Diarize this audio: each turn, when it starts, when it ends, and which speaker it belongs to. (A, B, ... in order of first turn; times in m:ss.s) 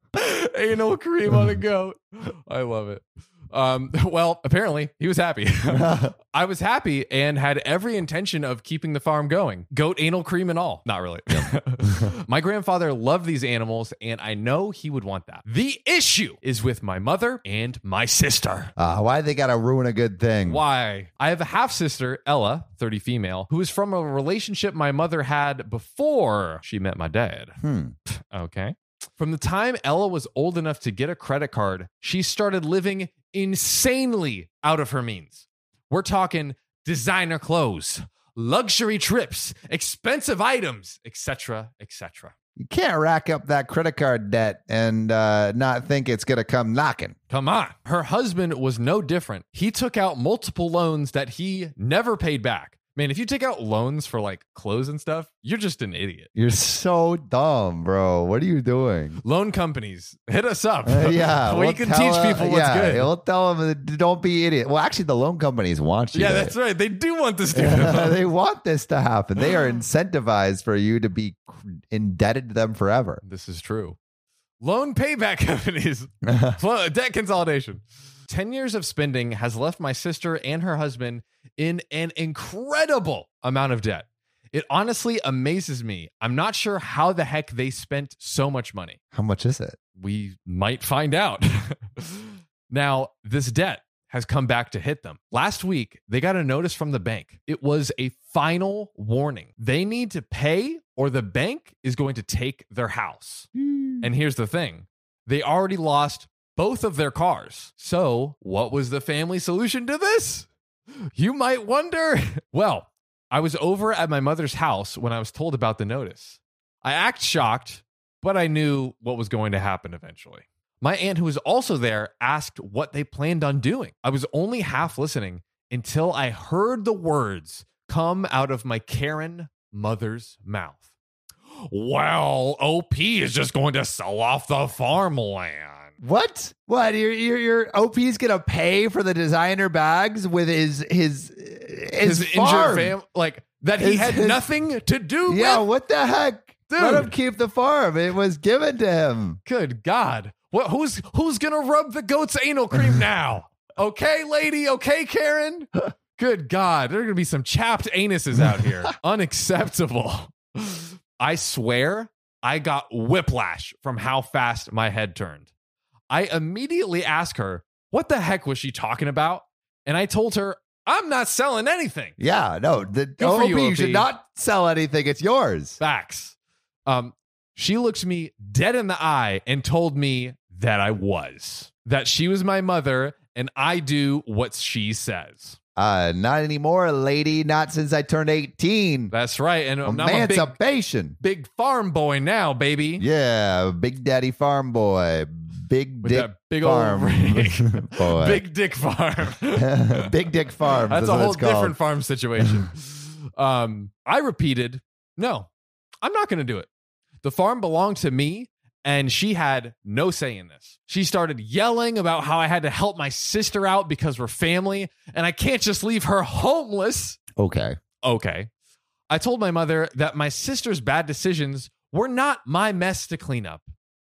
0:00.1-0:18.7 A
0:05.7-0:06.1 B
0:18.8-0:20.6 B
0:20.5-0:27.6 A
0:27.6-0:27.9 B
0:28.1-0:42.3 A
0:42.6-0:47.2 B
0:47.3-0:56.3 A
0:56.4-0:59.2 B
0:59.2-1:03.1 A
1:00.9-1:06.6 B
1:06.1-1:08.2 A
1:07.5-1:13.2 B
1:13.2-1:14.0 A
1:14.6-1:29.0 A
1:16.2-1:16.6 B
1:29.1-1:29.8 B
1:30.0-1:43.5 A
1:43.6-1:44.1 B
1:44.0-1:50.5 A
1:51.2-2:10.8 A
2:11.7-2:15.9 A
2:16.0-2:23.0 B
2:22.0-2:25.7 A
2:23.8-2:24.5 B
2:25.3-2:29.4 B
2:26.7-2:27.1 A
2:29.5-2:45.5 A
2:46.1-2:52.2 A
2:52.2-2:55.8 B
2:53.2-2:54.1 A
2:55.8-2:56.4 A
2:56.9-3:05.6 A
3:05.8-3:09.1 B
3:09.1-3:10.6 A
3:09.8-3:11.2 B
3:11.2-3:13.0 A
3:13.0-3:18.4 B
3:16.0-3:20.1 A
3:19.5-3:21.8 B
3:20.9-3:25.5 A
3:26.0-3:26.7 A
3:27.2-3:37.2 A
3:37.4-3:37.8 B
3:38.0-3:38.5 A
3:39.1-3:43.6 A